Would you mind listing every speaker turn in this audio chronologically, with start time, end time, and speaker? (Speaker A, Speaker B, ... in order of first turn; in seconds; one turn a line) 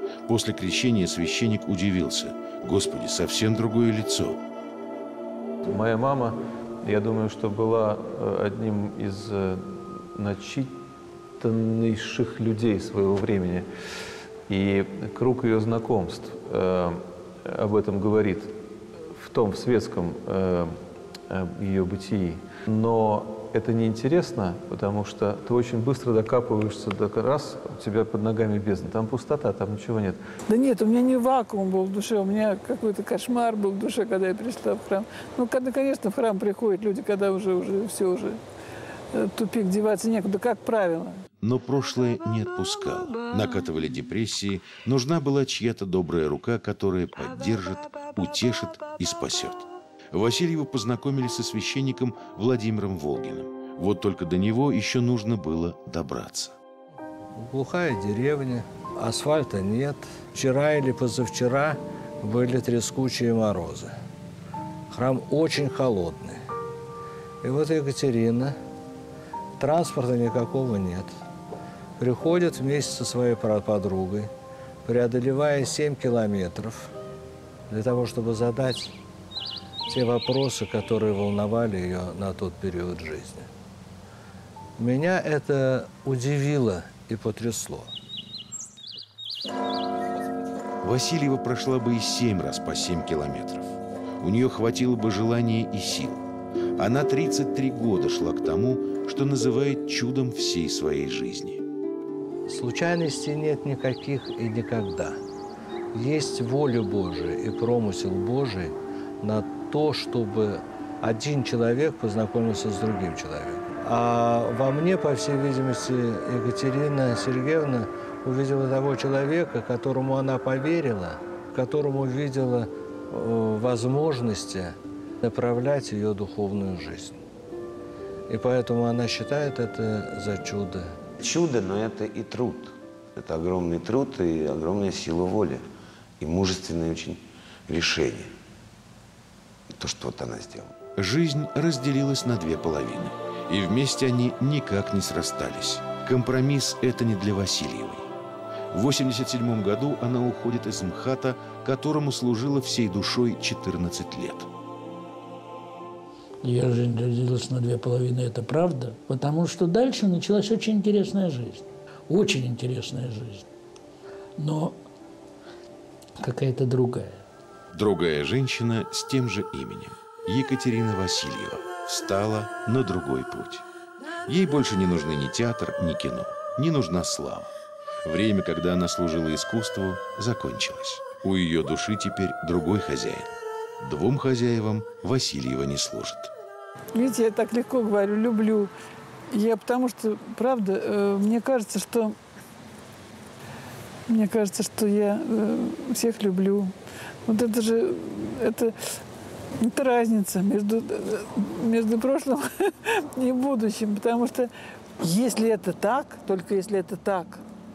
Speaker A: 0.3-4.4
Speaker B: 5.7-10.8
Speaker B: 11.4-13.7
Speaker B: 14.5-18.6
Speaker B: 19.1-30.2
Speaker C: 30.5-38.4
Speaker C: 39.1-41.2
Speaker A: 41.4-56.5
Speaker D: 57.4-63.9
Speaker D: 64.9-66.4
Speaker D: 67.4-68.6
Speaker D: 69.6-71.1
Speaker D: 72.0-74.3
Speaker D: 74.8-76.9
Speaker D: 77.7-78.9
Speaker D: 79.9-83.5
Speaker D: 84.8-87.9
Speaker A: 90.8-96.2
Speaker A: 96.8-101.6
Speaker D: 102.5-105.2
Speaker D: 105.9-127.2
Speaker D: 128.3-131.0
Speaker E: 131.2-135.6
Speaker E: 136.2-138.3
Speaker E: 139.8-140.7
Speaker A: 141.0-148.1
Speaker A: 148.7-154.5
Speaker F: 156.4-163.4
Speaker F: 164.4-164.8
Speaker F: 166.2-167.2
Speaker A: 167.7-173.6
Speaker A: 174.2-177.5
Speaker A: 178.0-186.3
Speaker C: 186.9-188.7
Speaker C: 189.3-192.1
Speaker C: 194.1-196.7
Speaker C: 197.3-198.7
Speaker C: 199.6-207.4